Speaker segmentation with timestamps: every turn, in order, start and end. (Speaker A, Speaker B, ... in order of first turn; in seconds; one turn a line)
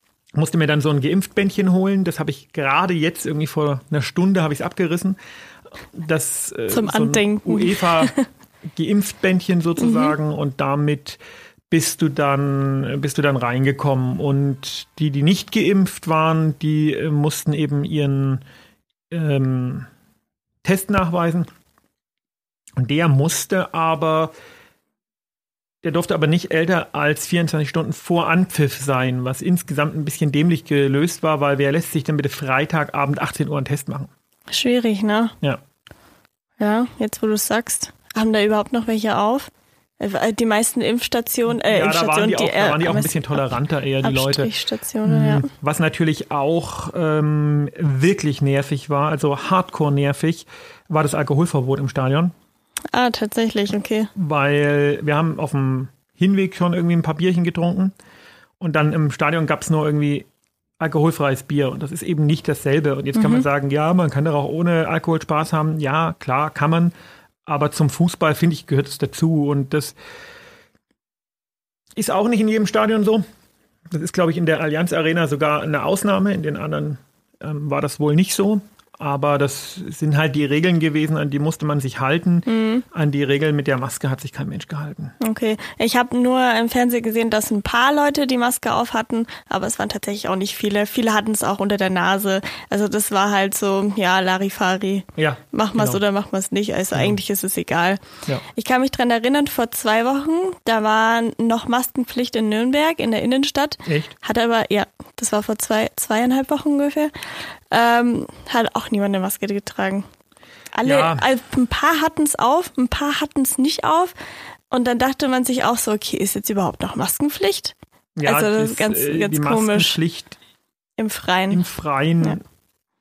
Speaker A: 0.3-5.2
Speaker A: 5.9-8.1
Speaker B: 6.7-8.2
Speaker A: 8.7-11.2
Speaker B: 9.8-10.1
Speaker A: 11.7-18.4
Speaker A: 19.1-19.9
Speaker A: 20.6-21.5
Speaker A: 22.8-24.3
Speaker A: 25.8-34.1
Speaker B: 34.5-35.3
Speaker B: 36.6-45.5
Speaker A: 41.5-44.5
Speaker A: 45.0-52.3
Speaker B: 52.9-54.1
Speaker A: 54.1-57.9
Speaker A: 58.6-60.3
Speaker A: 60.8-66.9
Speaker B: 63.1-63.5
Speaker A: 67.5-70.0
Speaker A: 72.0-73.2
Speaker A: 73.9-85.1
Speaker B: 82.5-82.8
Speaker B: 85.2-98.0
Speaker A: 95.2-96.0
Speaker B: 98.5-107.1
Speaker A: 103.9-104.1
Speaker B: 107.7-110.0
Speaker B: 110.7-114.1
Speaker A: 110.8-111.2
Speaker B: 114.7-120.0
Speaker A: 118.2-120.4
Speaker B: 121.0-121.6
Speaker A: 121.5-122.4